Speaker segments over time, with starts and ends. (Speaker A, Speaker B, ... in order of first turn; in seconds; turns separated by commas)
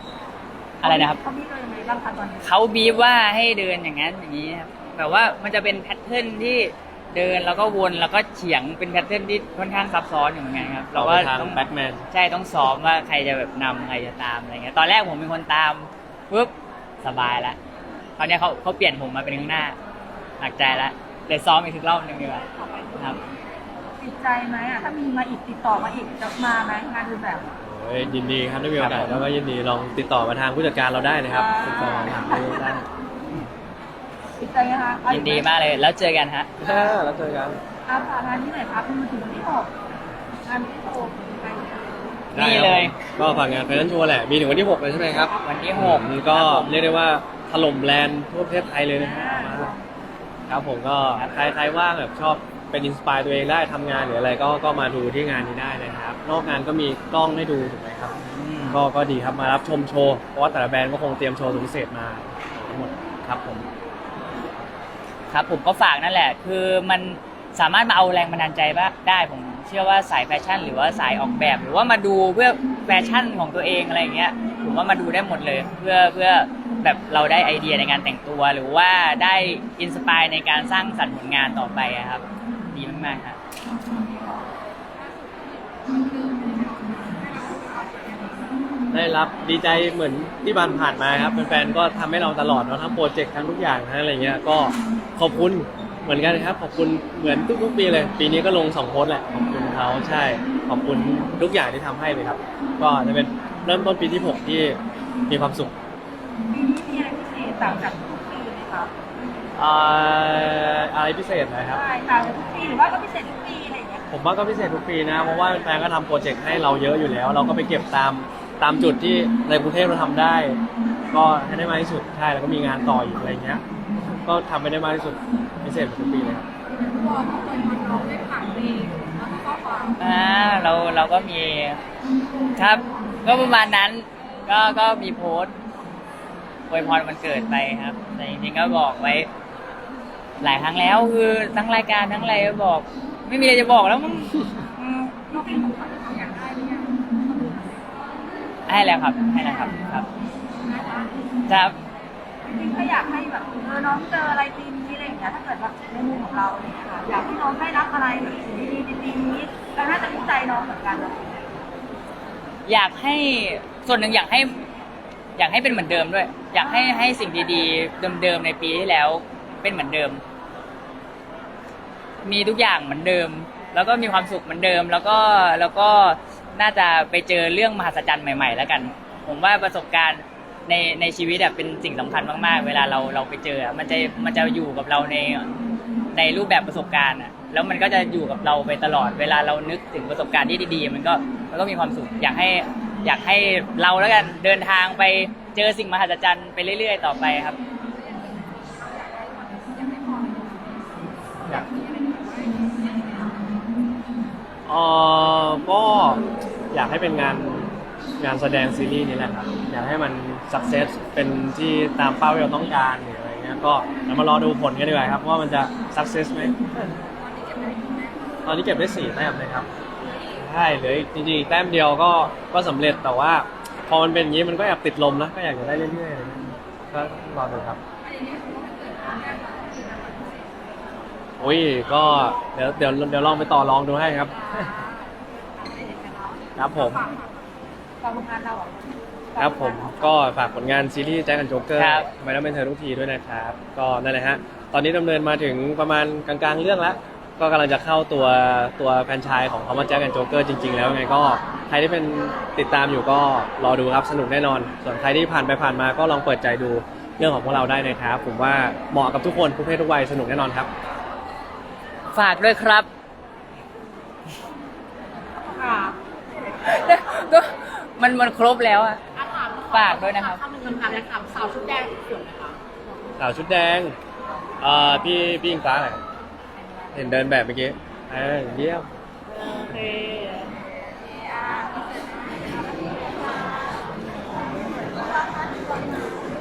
Speaker A: 0.8-1.2, Speaker B: 0.8-2.5, Speaker A: 2.4-11.6, Speaker C: 10.9-12.1, Speaker A: 12.1-17.6, Speaker A: 18.2-19.8, Speaker A: 20.4-23.2, Speaker D: 22.6-22.9, Speaker B: 24.0-27.6, Speaker C: 27.6-32.8, Speaker A: 28.8-29.1, Speaker B: 31.3-32.8, Speaker B: 34.4-35.5, Speaker A: 35.1-36.5, Speaker C: 36.6-37.6, Speaker B: 37.9-39.7, Speaker B: 40.5-42.2, Speaker C: 42.3-49.7, Speaker A: 42.3-42.9, Speaker A: 45.4-46.8, Speaker B: 48.9-49.8, Speaker C: 50.5-58.1, Speaker A: 58.2-58.8, Speaker C: 58.7-63.7, Speaker A: 65.3-83.4, Speaker D: 84.9-88.5, Speaker C: 88.9-105.7, Speaker B: 106.5-108.9, Speaker C: 109.5-111.8, Speaker B: 111.7-114.0, Speaker C: 114.1-120.6, Speaker C: 121.1-123.6, Speaker C: 124.1-126.5, Speaker D: 126.7-130.0, Speaker A: 130.0-131.8, Speaker A: 132.6-135.5, Speaker A: 136.7-139.3, Speaker A: 140.4-144.5, Speaker B: 144.8-145.8, Speaker D: 145.3-147.9, Speaker A: 148.7-150.1, Speaker D: 150.5-151.2, Speaker A: 151.5-151.8, Speaker B: 152.4-161.5, Speaker A: 162.7-164.6, Speaker A: 165.3-170.2, Speaker B: 166.6-167.1, Speaker A: 172.2-185.5, Speaker A: 186.1-197.6, Speaker D: 197.8-203.5, Speaker C: 204.7-216.6, Speaker D: 217.0-218.4, Speaker C: 218.4-219.7, Speaker D: 220.0-220.3, Speaker C: 220.4-227.8, Speaker D: 228.0-230.6, Speaker C: 231.4-234.3, Speaker D: 234.3-237.4, Speaker C: 236.6-237.0, Speaker B: 238.0-240.1, Speaker C: 239.4-260.7, Speaker A: 241.8-242.1, Speaker A: 262.1-262.9, Speaker D: 265.4-266.0, Speaker A: 266.5-269.0, Speaker D: 269.2-272.6, Speaker A: 269.7-270.4, Speaker C: 273.2-273.9, Speaker C: 274.6-276.0, Speaker C: 276.9-278.9, Speaker D: 279.3-280.5, Speaker D: 281.1-283.2